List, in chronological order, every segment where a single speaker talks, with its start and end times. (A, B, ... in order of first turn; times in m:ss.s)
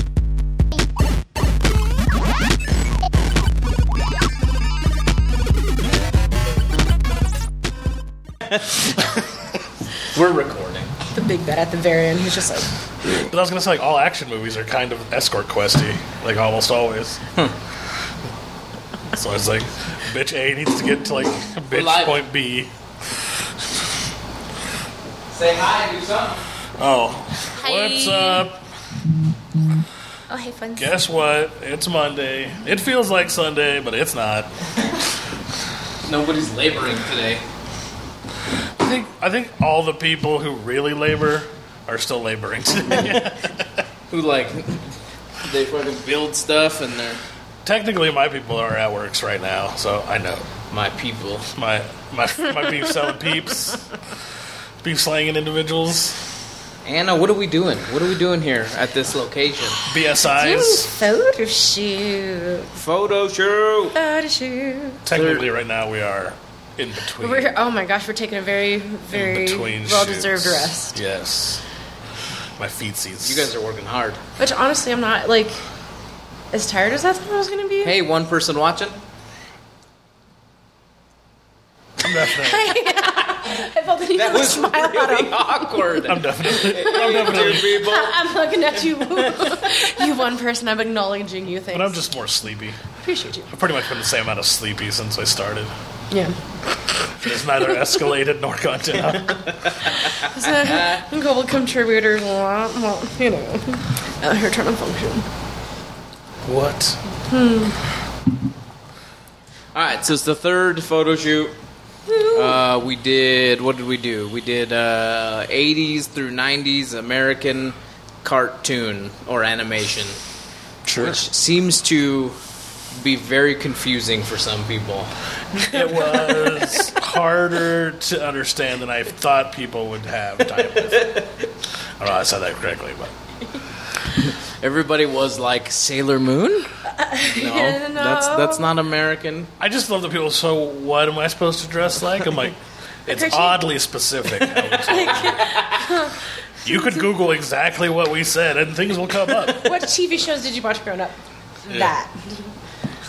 0:08.5-0:09.1 A
0:10.1-0:10.9 A
0:11.1-0:12.7 B
0:13.1-0:17.2 C
0:19.1-0:22.7 C
0:21.7-0:22.2 A
0:25.3-0:26.4 A
0:26.8-0:28.6 C
0:27.6-0:28.4 B
0:30.3-0:30.9 B
0:30.8-0:34.5 C
0:36.0-0:37.4 A
0:38.8-0:43.8 C
0:44.1-0:44.9 A
0:45.4-0:47.2 A
0:47.6-0:50.5 C
0:50.7-0:51.5 A
0:51.5-0:53.8 C
0:54.8-0:56.2 C
0:56.8-0:59.8 A
0:59.9-1:00.9 C
1:00.2-1:02.7 B
1:02.8-1:04.0 A
1:03.9-1:05.0 B
1:05.0-1:07.5 C
1:05.1-1:05.4 A
1:07.2-1:11.0 B
1:09.1-1:11.6 C
1:12.6-1:13.5 C
1:13.2-1:14.2 A
1:14.4-1:15.6 B
1:16.5-1:18.0 B
1:17.8-1:19.0 A
1:22.0-1:22.7 C
1:22.1-1:32.0 B
1:24.1-1:28.2 A
1:26.0-1:27.8 C
1:28.7-1:29.7 A
1:31.7-1:32.8 C
1:33.0-1:33.5 B
1:33.5-1:35.7 C
1:36.1-1:36.4 B
1:37.2-1:39.5 C
1:39.6-1:41.0 A
1:39.9-1:45.3 B
1:46.4-1:47.0 C
1:47.3-1:47.8 B
1:49.7-1:51.6 A
1:52.1-1:52.6 B
1:52.3-2:00.2 A
2:00.8-2:01.2 C
2:01.0-2:02.4 A
2:02.9-2:05.1 A
2:05.5-2:11.2 C
2:05.7-2:06.6 A
2:10.9-2:11.5 A
2:12.0-2:13.1 C
2:14.6-2:16.7 A
2:16.9-2:18.6 B
2:17.2-2:19.5 A
2:19.6-2:25.4 C
2:23.1-2:23.7 B
2:24.6-2:27.1 B
2:25.3-2:25.8 A
2:26.6-2:29.7 C
2:29.5-2:32.5 B
2:31.7-2:31.9 C